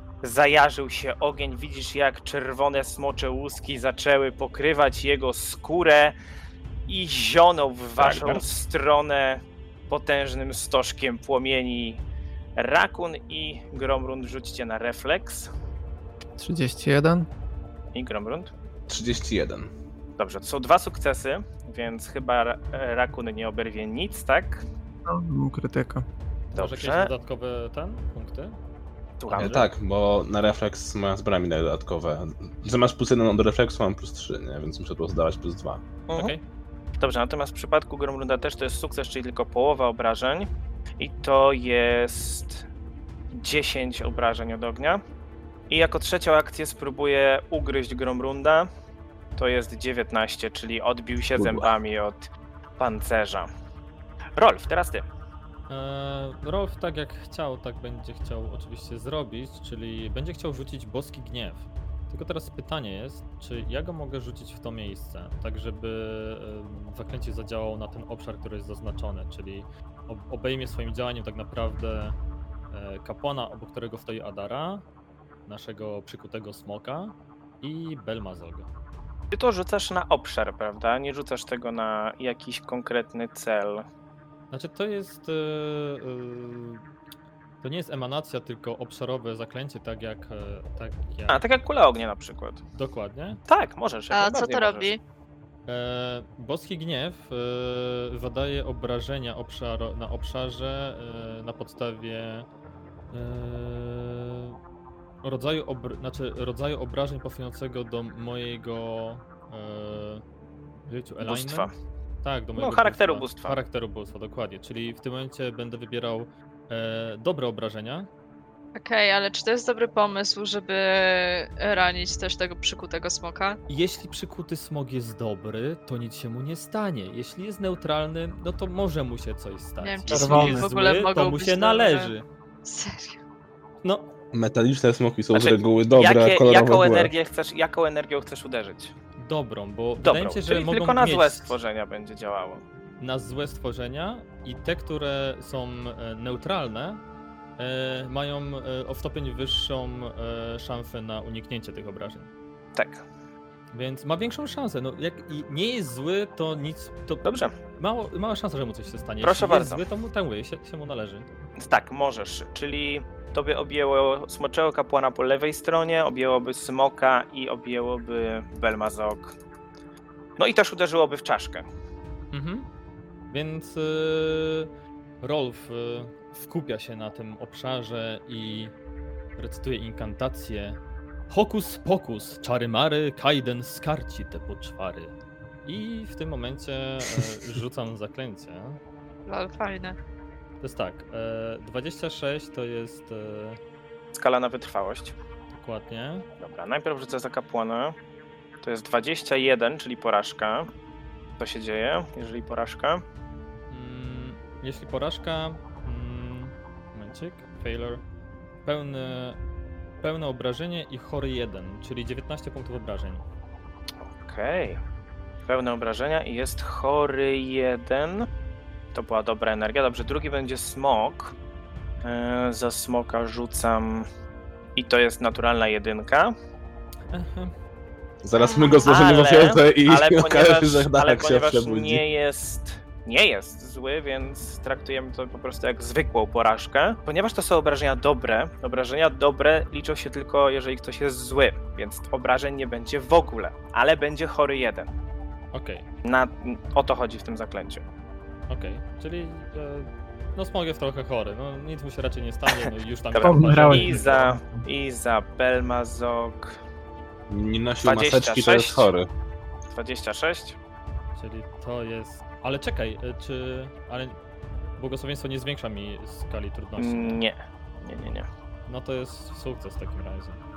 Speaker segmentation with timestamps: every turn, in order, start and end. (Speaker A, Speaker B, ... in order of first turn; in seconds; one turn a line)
Speaker A: 0.2-6.1
Speaker A: 6.9-12.0
Speaker B: 8.0-8.4
Speaker A: 12.6-15.5
Speaker C: 16.4-17.3
Speaker A: 17.9-18.5
Speaker B: 18.9-19.7
Speaker A: 20.2-24.6
Speaker C: 25.1-26.0
Speaker D: 26.5-28.6
Speaker A: 26.5-27.1
Speaker A: 29.2-29.7
Speaker B: 29.3-35.8
Speaker D: 36.1-36.4
Speaker A: 37.0-42.6
Speaker A: 43.3-45.0
Speaker A: 45.7-48.7
Speaker A: 49.4-53.5
Speaker B: 51.4-51.7
Speaker A: 54.4-55.0
Speaker D: 55.7-72.2
Speaker D: 72.7-74.8
Speaker D: 75.5-78.7
Speaker A: 79.3-83.8
Speaker D: 84.5-86.8
Speaker D: 87.6-91.4
Speaker A: 91.3-92.6
Speaker D: 92.7-93.4
Speaker A: 93.5-94.9
Speaker E: 94.1-95.0
Speaker D: 95.7-102.5
Speaker D: 103.1-104.6
Speaker D: 105.2-110.2
Speaker D: 110.9-111.7
Speaker A: 111.2-111.7
Speaker D: 112.2-118.1
Speaker A: 112.6-113.6
Speaker E: 118.7-123.6
Speaker D: 123.7-132.2
Speaker E: 129.8-132.1
Speaker C: 130.1-130.7
Speaker E: 132.6-133.2
Speaker D: 133.8-134.1
Speaker B: 134.3-137.1
Speaker A: 135.3-138.9
Speaker D: 139.2-141.5
Speaker A: 140.0-142.6
Speaker D: 143.0-147.0
Speaker D: 147.6-152.3
Speaker A: 152.7-153.0
Speaker D: 153.7-161.3
Speaker A: 157.2-157.5
Speaker A: 159.2-159.8
Speaker A: 161.6-169.3
Speaker A: 170.4-171.7
Speaker D: 172.3-172.7
Speaker D: 173.3-174.7
Speaker D: 175.2-178.7
Speaker D: 179.4-185.1
Speaker D: 185.7-188.8
Speaker E: 189.2-190.0
Speaker D: 190.6-193.6
Speaker A: 194.1-195.1
Speaker D: 195.6-196.3
Speaker A: 196.4-197.9
Speaker A: 198.6-200.7
Speaker A: 201.4-203.0
Speaker D: 203.7-208.0
Speaker D: 208.6-209.4
Speaker D: 210.0-213.2
Speaker A: 214.2-214.8
Speaker A: 215.4-218.3
Speaker A: 218.9-221.3
Speaker A: 222.0-224.1
Speaker A: 224.8-226.3
Speaker D: 227.1-227.5
Speaker B: 228.2-232.0
Speaker E: 228.3-228.9
Speaker A: 228.8-244.9
Speaker D: 245.5-245.8
Speaker A: 246.0-247.8
Speaker D: 248.5-254.4
Speaker A: 253.1-256.6
Speaker C: 253.2-254.6
Speaker B: 257.3-259.1
Speaker A: 257.8-258.9
Speaker A: 259.7-260.6
Speaker D: 261.1-264.2
Speaker D: 264.8-267.2
Speaker A: 266.8-268.3
Speaker D: 268.7-270.4